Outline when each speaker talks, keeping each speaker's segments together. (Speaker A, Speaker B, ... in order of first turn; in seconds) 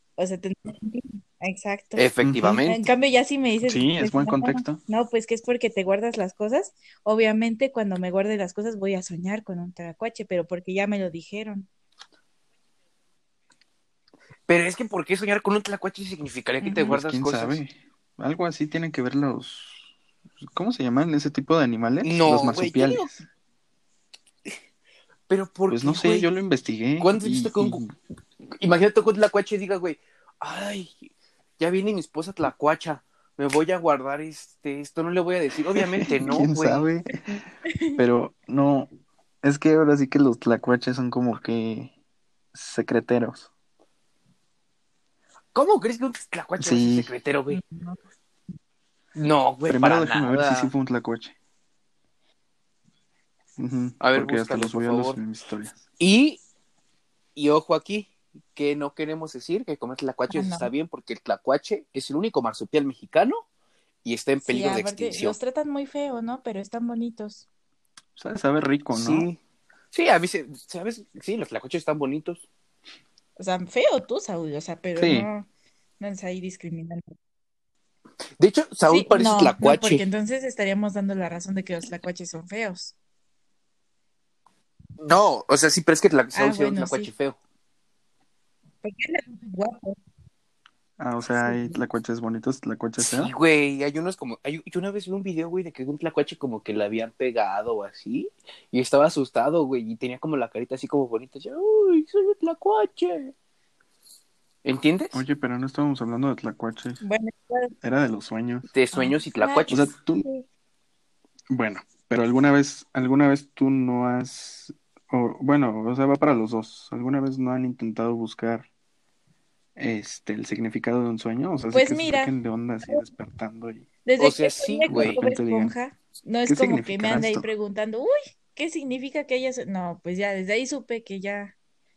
Speaker A: 0.2-2.1, 2.6-11.7, 16.6-16.9, 37.7-38.0, 47.5-48.0, 60.3-60.7, 64.4-67.4, 73.4-75.5, 76.0-77.1, 78.9-82.9, 86.3-87.1, 88.8-90.0, 91.2-91.8, 107.0-107.7, 108.9-110.4, 121.7-122.3, 124.0-131.5
Speaker B: 1.9-2.9, 14.5-17.6, 22.0-23.1, 25.3-26.3, 27.0-27.8, 28.5-36.9, 45.5-47.6, 49.1-50.7, 54.0-55.2, 56.0-56.4, 57.3-63.4, 64.0-65.3, 68.9-69.4, 69.9-72.4, 78.4-80.0, 85.0-87.4, 93.0-103.3, 104.6-105.2, 108.7-109.9, 124.2-125.2
Speaker C: 2.2-2.6, 3.6-4.8, 16.8-19.8, 20.4-23.2, 25.7-27.9, 35.8-37.2, 38.0-38.9, 39.4-41.9, 42.5-43.5, 46.6-47.1, 49.7-51.3, 53.6-55.8, 68.2-69.3, 75.0-75.3, 91.0-93.3, 105.1-107.0, 107.8-108.7, 109.7-110.2, 111.5-118.7, 119.8-123.8, 124.9-125.7, 126.5-127.5